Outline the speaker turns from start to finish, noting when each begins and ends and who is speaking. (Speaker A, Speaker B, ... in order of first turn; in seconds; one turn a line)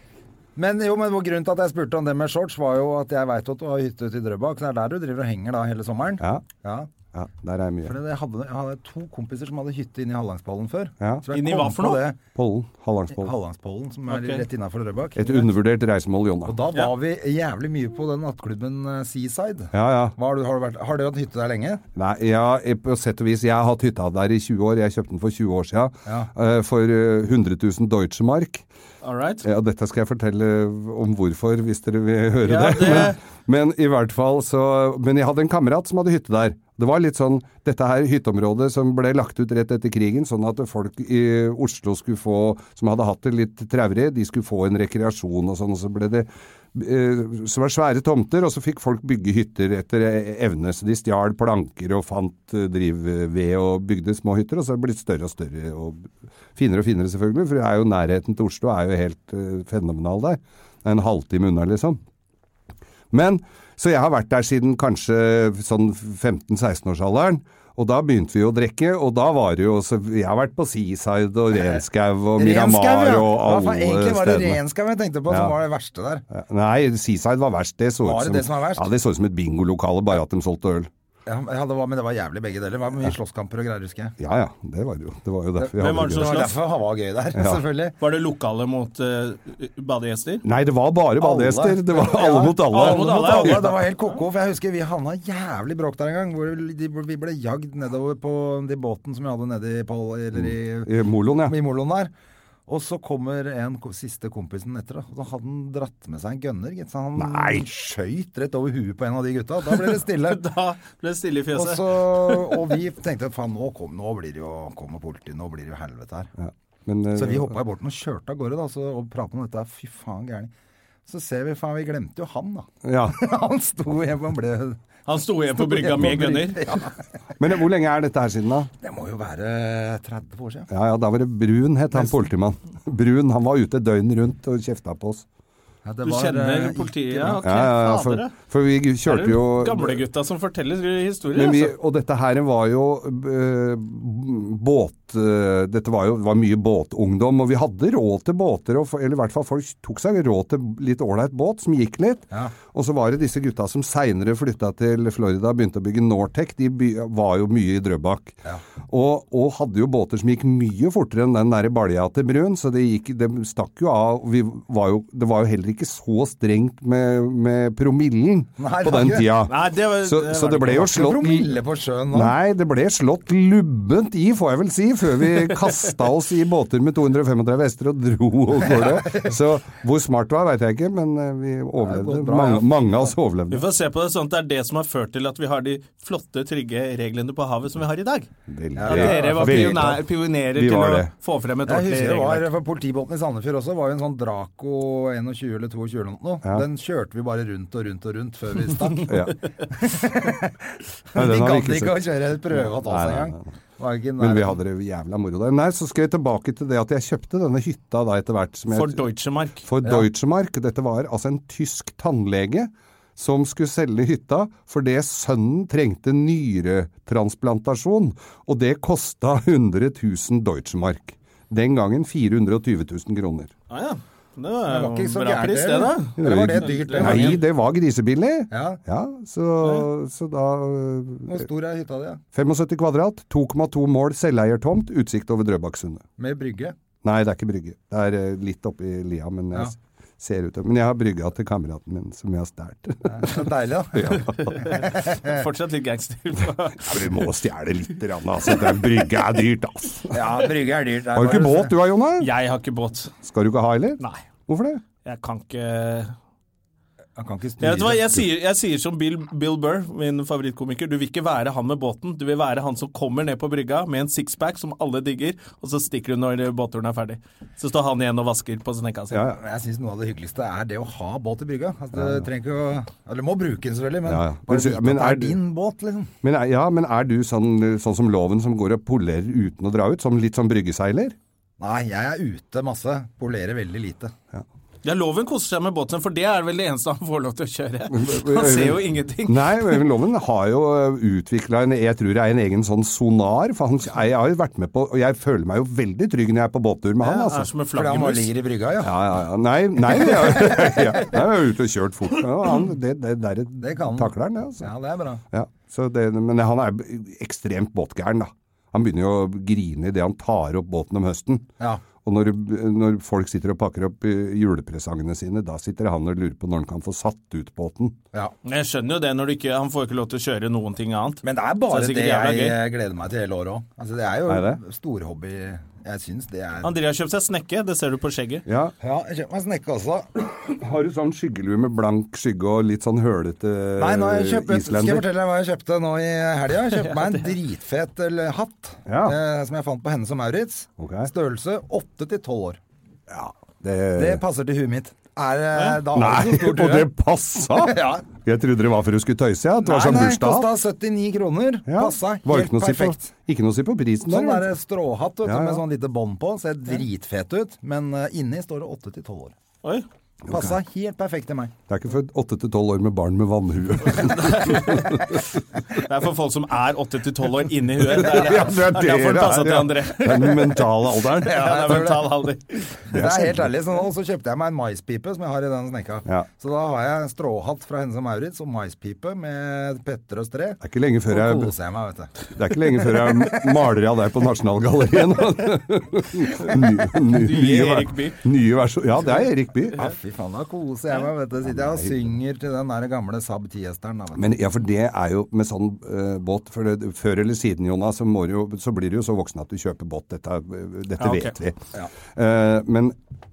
Speaker A: 0.6-6.9
Speaker B: 6.2-6.5
Speaker B: 7.1-8.0
Speaker A: 7.8-12.2
Speaker B: 11.0-11.2
Speaker C: 11.3-12.0
Speaker B: 12.3-13.3
Speaker A: 13.1-15.6
Speaker C: 14.1-14.4
Speaker B: 15.2-16.6
Speaker A: 16.4-21.8
Speaker B: 19.7-20.1
Speaker B: 21.9-28.6
Speaker C: 29.0-29.4
Speaker B: 29.4-62.0
Speaker C: 32.4-33.2
Speaker B: 63.1-74.6
Speaker A: 72.4-76.2
Speaker B: 75.3-75.6
Speaker B: 76.3-80.9
Speaker A: 78.0-78.9
Speaker A: 81.3-84.2
Speaker B: 84.2-86.5
Speaker C: 85.7-86.6
Speaker A: 86.1-88.0
Speaker B: 87.4-87.6
Speaker C: 88.0-90.5
Speaker B: 90.4-93.7
Speaker A: 91.2-100.9
Speaker C: 92.7-93.9
Speaker B: 100.4-101.6
Speaker A: 101.4-102.1
Speaker A: 102.7-110.5
Speaker B: 107.2-107.7
Speaker C: 110.3-112.6
Speaker A: 111.5-116.3
Speaker B: 116.4-117.5
Speaker A: 117.2-120.5
Speaker A: 121.1-124.8
Speaker B: 122.8-123.2
Speaker C: 125.1-126.8
Speaker A: 125.6-127.0
Speaker B: 127.4-128.7
Speaker A: 128.8-130.7
Speaker B: 130.7-135.2
Speaker A: 135.8-137.4
Speaker C: 136.0-138.3
Speaker B: 137.4-140.0
Speaker C: 139.1-141.7
Speaker B: 141.3-171.5
Speaker A: 168.6-169.3
Speaker C: 169.5-171.0
Speaker A: 170.7-172.4
Speaker B: 172.1-183.7
Speaker A: 178.6-179.3
Speaker A: 181.8-183.1
Speaker C: 183.5-188.3
Speaker B: 188.5-191.1
Speaker A: 188.8-189.9
Speaker C: 188.8-192.5
Speaker A: 191.7-199.2
Speaker B: 199.1-199.4
Speaker A: 199.7-204.6
Speaker B: 201.2-203.5
Speaker B: 204.2-209.0
Speaker C: 208.7-209.7
Speaker B: 209.6-223.5
Speaker C: 223.7-227.4
Speaker A: 224.7-227.4
Speaker B: 226.2-231.4
Speaker A: 228.5-228.8
Speaker C: 229.6-229.9
Speaker A: 231.3-232.2
Speaker B: 232.3-236.1
Speaker A: 236.2-236.8
Speaker B: 237.0-243.4
Speaker A: 243.1-245.4
Speaker B: 243.9-244.7
Speaker C: 244.4-247.1
Speaker B: 246.8-250.2
Speaker A: 250.1-251.8
Speaker B: 251.1-252.3
Speaker C: 252.2-253.1
Speaker B: 253.2-254.8
Speaker C: 254.0-254.2
Speaker C: 255.0-256.1
Speaker A: 257.2-258.1
Speaker C: 257.6-269.3
Speaker B: 269.1-269.4
Speaker A: 269.3-276.1
Speaker B: 272.0-272.2
Speaker B: 274.1-275.4
Speaker B: 276.2-281.2
Speaker A: 281.6-284.1
Speaker C: 284.8-289.9
Speaker B: 287.9-297.5
Speaker C: 297.0-298.3
Speaker A: 297.7-299.0
Speaker B: 298.8-304.7
Speaker A: 300.0-301.0
Speaker A: 303.6-305.2
Speaker B: 305.3-318.0
Speaker C: 318.4-322.6
Speaker A: 321.2-326.8
Speaker B: 324.3-324.6
Speaker C: 326.6-328.5
Speaker B: 328.5-328.7
Speaker A: 328.8-330.1
Speaker B: 330.2-335.1
Speaker A: 333.8-342.6
Speaker C: 336.8-337.3
Speaker B: 338.9-339.2
Speaker B: 340.8-341.1
Speaker B: 343.1-344.2
Speaker A: 344.0-346.9
Speaker B: 345.9-350.5
Speaker A: 347.6-348.1
Speaker A: 349.6-353.1
Speaker B: 351.7-354.5
Speaker A: 354.1-359.4
Speaker B: 355.2-355.6
Speaker B: 360.3-360.6
Speaker A: 360.3-361.6
Speaker B: 361.7-365.3
Speaker C: 363.9-365.1
Speaker C: 365.8-372.7
Speaker B: 367.8-371.6
Speaker A: 371.2-372.1
Speaker A: 372.8-382.2
Speaker B: 372.9-373.5
Speaker B: 380.6-381.5
Speaker B: 382.3-389.8
Speaker A: 382.9-383.3
Speaker C: 387.0-388.2
Speaker A: 389.7-394.3
Speaker B: 391.4-392.1
Speaker B: 394.1-403.0
Speaker C: 401.0-401.4